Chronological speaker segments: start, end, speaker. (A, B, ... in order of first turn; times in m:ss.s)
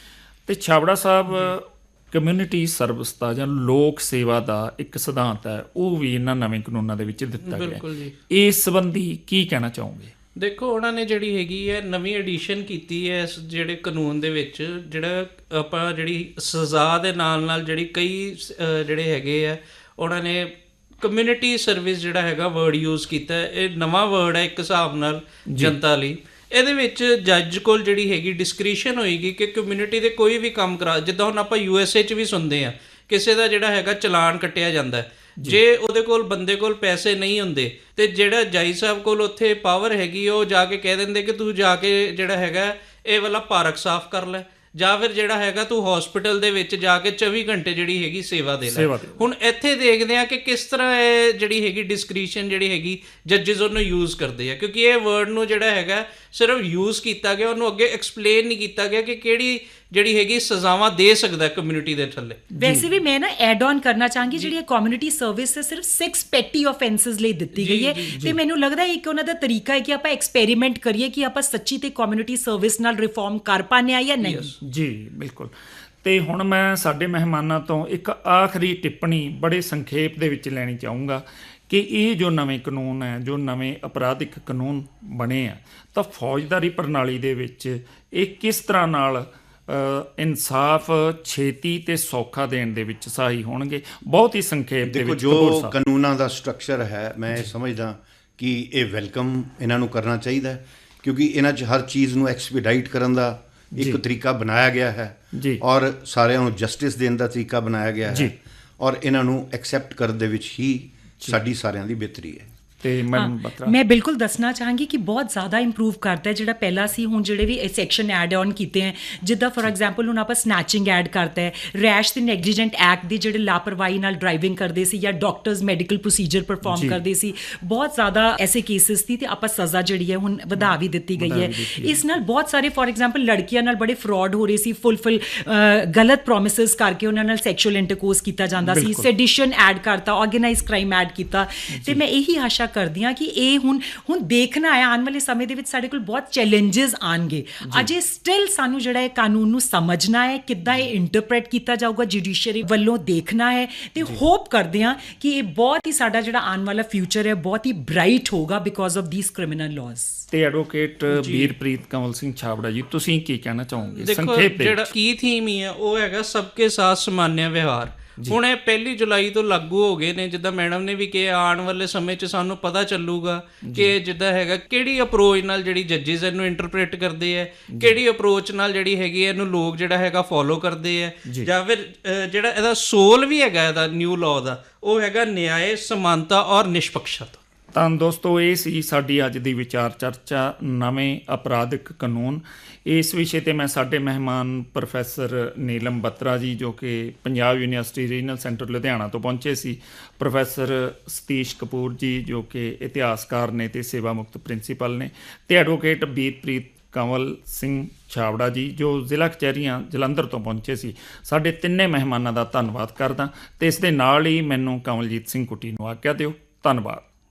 0:00.4-0:10.1 A
0:07.4-0:08.2 B
0:10.4-1:02.4 B
0:25.5-0:25.7 A
0:48.6-0:49.2 A
1:02.5-1:02.9 A
1:02.6-1:14.5 C
1:07.5-1:08.2 B
1:08.1-1:08.4 A
1:14.2-1:14.5 B
1:14.6-1:35.7 A
1:34.8-1:52.5 D
1:43.7-1:44.0 A
1:45.3-1:45.6 A
1:48.1-1:48.3 A
1:52.8-1:53.8 A
1:53.1-2:40.3 C
2:06.6-2:07.0 A
2:10.6-2:12.0 A
2:18.6-2:19.1 A
2:21.7-2:22.0 A
2:27.6-2:27.9 A
2:40.3-2:44.9 A
2:41.1-2:41.5 B
2:43.9-3:07.4 B
2:53.6-2:53.9 A
2:57.7-2:58.0 A
3:07.7-3:37.0 A